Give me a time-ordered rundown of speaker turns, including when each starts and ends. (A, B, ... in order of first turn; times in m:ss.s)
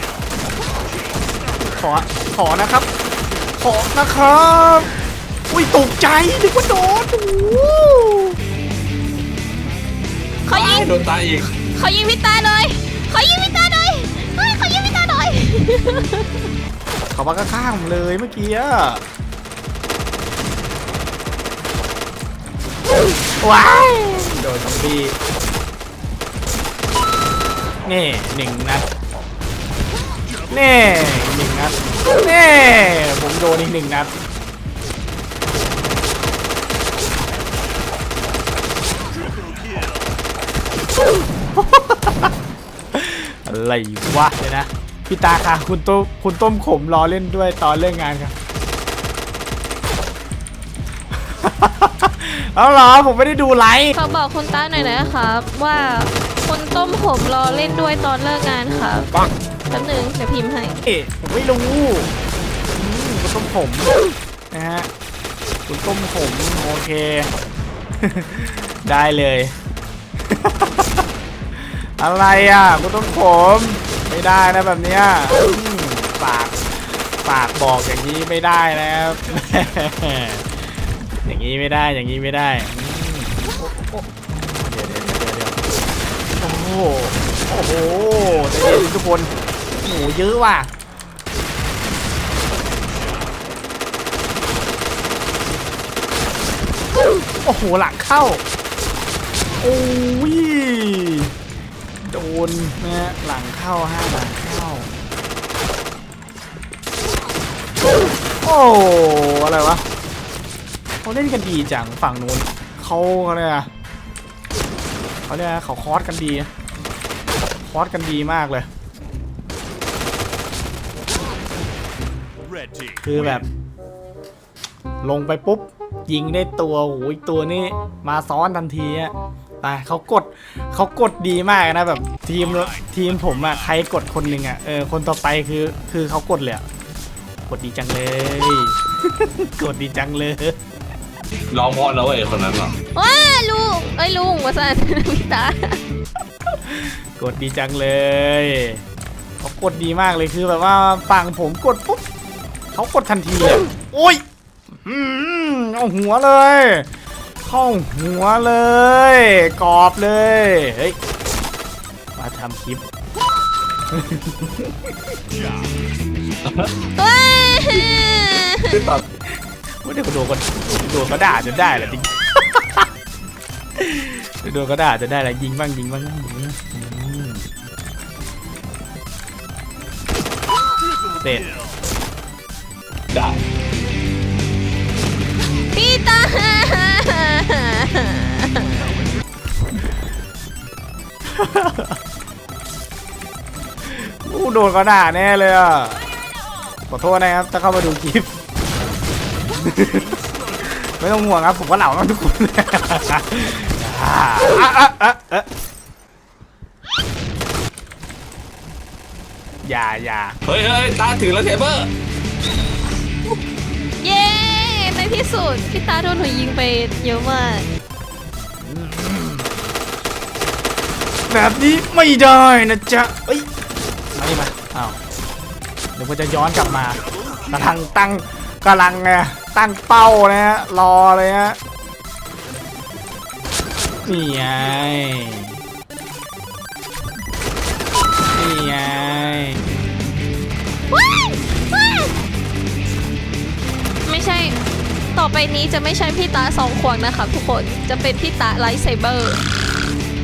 0:01.8-0:02.9 A
0:03.6-0:04.9 A
0:05.5-0:08.4 A
0:10.4-0:10.9 B
0:10.5-0:11.5 C
0:11.7-0:16.4 B
0:17.1-0:19.0 A
0:23.4-0:25.2 A
0:27.8-0:28.9 A
0:30.5-0:34.1 A
0:41.5-0:42.3 A
0:42.9-0:48.3 A
0:51.1-0:54.0 A
0:53.9-0:59.1 B
0:59.7-1:00.8 B
1:00.8-1:02.1 A
1:02.7-1:03.9 A
1:04.5-1:04.9 A
1:05.7-1:07.3 A
1:08.0-1:09.5 A
1:10.3-1:11.0 A
1:11.5-1:20.6 A
1:21.2-1:25.6 A
1:26.4-1:29.3 A
1:29.8-1:30.7 A
1:37.4-1:38.4 A
1:39.6-1:41.3 A
1:42.0-1:44.9 A
1:48.4-1:49.8 A
1:51.0-1:53.7 A
1:55.3-1:56.5 A
1:57.6-1:58.7 A
2:03.0-2:03.4 A
2:05.0-2:16.6 A
2:17.5-2:20.6 A
2:21.5-2:22.8 C
2:22.9-2:25.8 B
2:26.7-2:28.8 A
2:29.4-2:32.0 A
2:32.7-2:34.2 A
2:34.7-2:36.9 A
2:37.4-2:41.0 A
2:42.2-2:42.8 A
2:43.9-2:44.7 A
2:46.9-2:48.7 B
2:48.7-2:49.0 C
2:49.8-2:52.9 A
2:53.8-2:57.4 A
3:01.2-3:01.5 A
3:03.1-3:03.4 C
3:05.7-3:09.0 B
3:11.3-3:12.0 A
3:13.8-3:16.0 A
3:16.9-3:18.3 A
3:19.6-3:25.5 A
3:29.6-3:30.4 A
3:30.4-3:31.9 C
3:34.0-3:37.7 B
3:38.6-3:39.5 A
3:41.3-3:43.5 A
3:44.1-3:45.0 A
3:46.0-3:51.6 A
3:54.0-3:55.6 A
3:58.3-3:59.6 A
4:00.9-4:02.1 B
4:04.0-4:04.6 B
4:05.1-4:09.4 B